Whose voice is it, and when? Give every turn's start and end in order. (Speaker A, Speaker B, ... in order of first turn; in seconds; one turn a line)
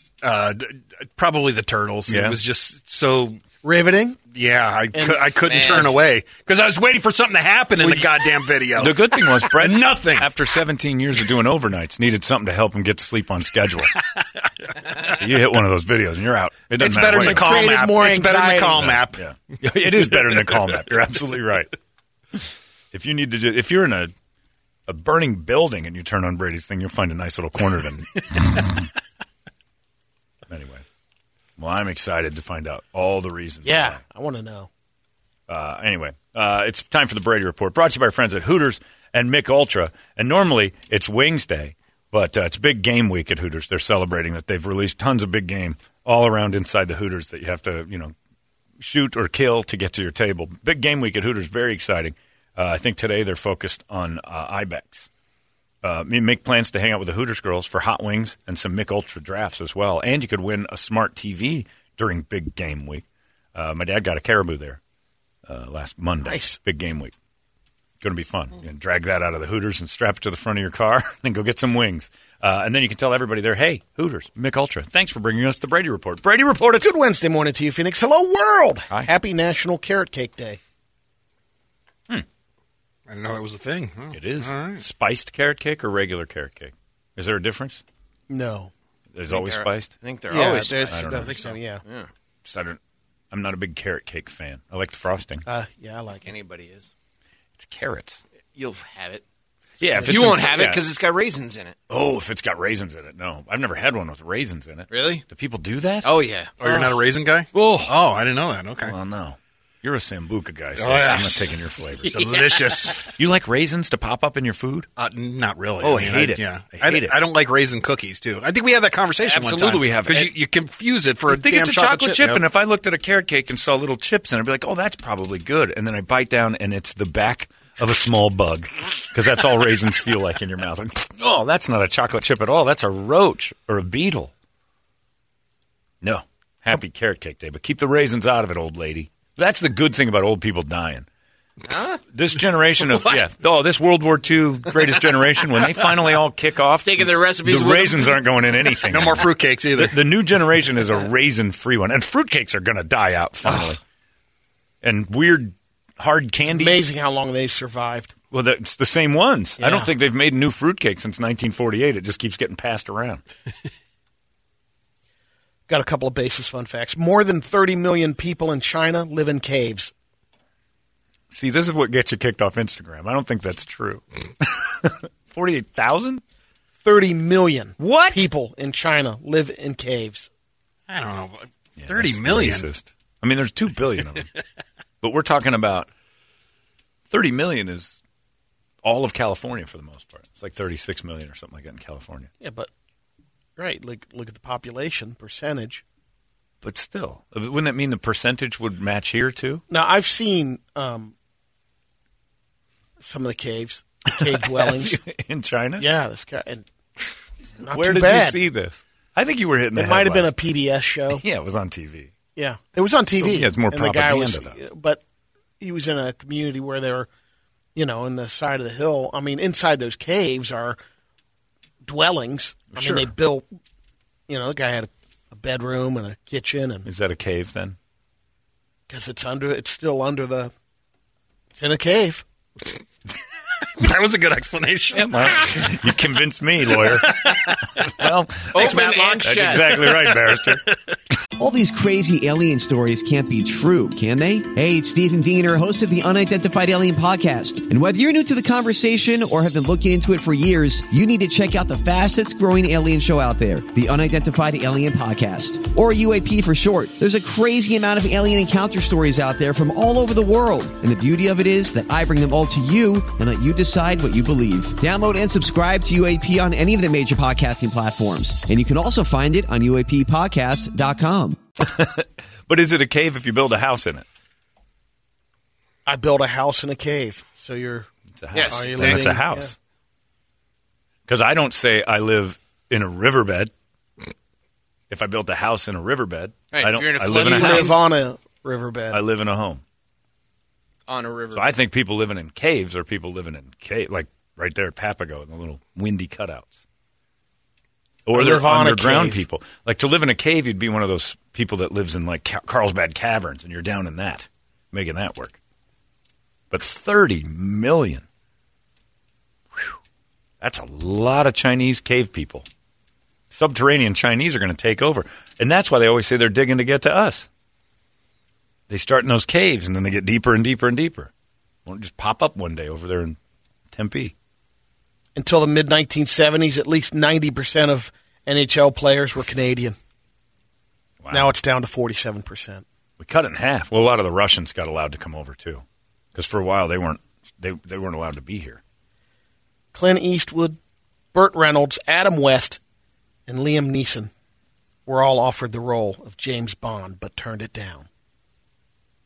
Speaker A: 0.2-3.4
Speaker B: 2.1-2.4
Speaker C: 3.6-4.2
Speaker A: 4.3-10.3
Speaker C: 5.0-5.9
Speaker D: 5.5-5.9
Speaker B: 7.8-14.0
Speaker B: 15.0-17.7
Speaker A: 16.8-19.2
Speaker C: 17.2-18.9
Speaker B: 18.8-21.7
Speaker A: 19.8-20.8
Speaker B: 22.4-24.1
Speaker B: 24.9-28.9
Speaker B: 30.5-30.9
Speaker B: 31.6-34.0
Speaker C: 33.6-34.7
Speaker B: 35.5-48.1
Speaker B: 48.8-55.1
Speaker B: 55.8-63.0
Speaker B: 63.5-64.8
Speaker B: 65.5-67.1
Speaker C: 66.2-66.6
Speaker B: 68.0-76.9
Speaker C: 76.8-80.6
Speaker A: 83.1-84.8
Speaker B: 84.1-87.8
Speaker C: 88.3-88.7
Speaker B: 89.1-90.0
Speaker D: 89.3-92.1
Speaker C: 90.3-91.8
Speaker B: 90.8-91.4
Speaker B: 92.5-92.8
Speaker B: 93.3-95.5
Speaker C: 95.5-96.3
Speaker D: 96.2-96.9
Speaker B: 97.6-98.2
Speaker D: 98.5-99.2
Speaker B: 99.8-100.8
Speaker C: 99.8-100.4
Speaker D: 100.0-101.8
Speaker B: 101.9-106.1
Speaker D: 104.9-105.2
Speaker D: 106.0-106.6
Speaker A: 106.6-108.9
Speaker B: 107.5-108.0
Speaker B: 108.8-112.2
Speaker A: 110.8-111.5
Speaker D: 110.9-111.3
Speaker D: 112.0-112.7
Speaker A: 112.1-113.0
Speaker B: 113.0-114.9
Speaker A: 115.0-122.4
Speaker B: 115.8-117.2
Speaker B: 119.2-120.3
Speaker B: 121.3-134.3
Speaker B: 136.0-141.1
Speaker D: 141.7-142.0
Speaker B: 142.1-153.8
Speaker D: 142.8-143.2
Speaker D: 144.7-145.1
Speaker D: 146.8-148.2
Speaker A: 148.9-150.0
Speaker A: 153.5-153.7
Speaker B: 154.8-156.9
Speaker C: 156.5-158.1
Speaker B: 158.3-163.2
Speaker C: 159.6-159.9
Speaker C: 165.7-169.9
Speaker B: 171.3-176.2
Speaker C: 176.8-180.3
Speaker B: 177.8-178.3
Speaker A: 180.9-182.7
Speaker B: 181.8-184.3
Speaker B: 185.0-185.9
Speaker B: 187.1-188.0
Speaker B: 188.8-192.3
Speaker C: 192.4-192.7
Speaker C: 193.6-195.8
Speaker B: 196.6-199.6
Speaker C: 199.7-201.1
Speaker C: 203.0-205.0
Speaker B: 204.2-205.9
Speaker C: 205.8-206.7
Speaker C: 207.6-208.4
Speaker B: 207.7-210.3
Speaker C: 209.8-211.2
Speaker B: 211.2-212.1
Speaker C: 212.4-215.0
Speaker B: 213.2-214.6
Speaker C: 215.6-217.1
Speaker C: 217.8-220.8
Speaker C: 221.8-223.5
Speaker B: 222.7-223.1
Speaker C: 224.3-226.9
Speaker B: 226.8-227.8
Speaker C: 228.9-230.5
Speaker C: 231.5-232.2
Speaker A: 233.8-235.8
Speaker B: 234.9-240.7
Speaker A: 236.7-237.8
Speaker D: 238.5-239.8
Speaker A: 239.7-240.8
Speaker E: 241.4-271.4
Speaker B: 271.6-274.1
Speaker C: 275.9-277.9
Speaker B: 278.2-279.5
Speaker D: 278.3-279.2
Speaker C: 278.5-279.5
Speaker B: 281.1-283.5
Speaker B: 284.9-287.8
Speaker D: 286.5-287.8
Speaker C: 287.1-289.0
Speaker B: 288.9-289.6
Speaker D: 290.9-291.6
Speaker B: 291.3-296.6
Speaker B: 298.1-305.4
Speaker C: 298.1-299.2
Speaker B: 306.5-308.1
Speaker B: 310.4-312.5
Speaker B: 313.3-317.3
Speaker B: 318.7-321.1
Speaker B: 321.7-323.2
Speaker B: 323.7-324.1
Speaker C: 325.2-329.8
Speaker B: 331.0-331.3
Speaker C: 331.1-332.6
Speaker B: 333.0-335.6
Speaker B: 336.1-338.6
Speaker C: 339.7-340.6
Speaker C: 341.1-342.6
Speaker C: 343.3-344.1
Speaker C: 344.9-347.9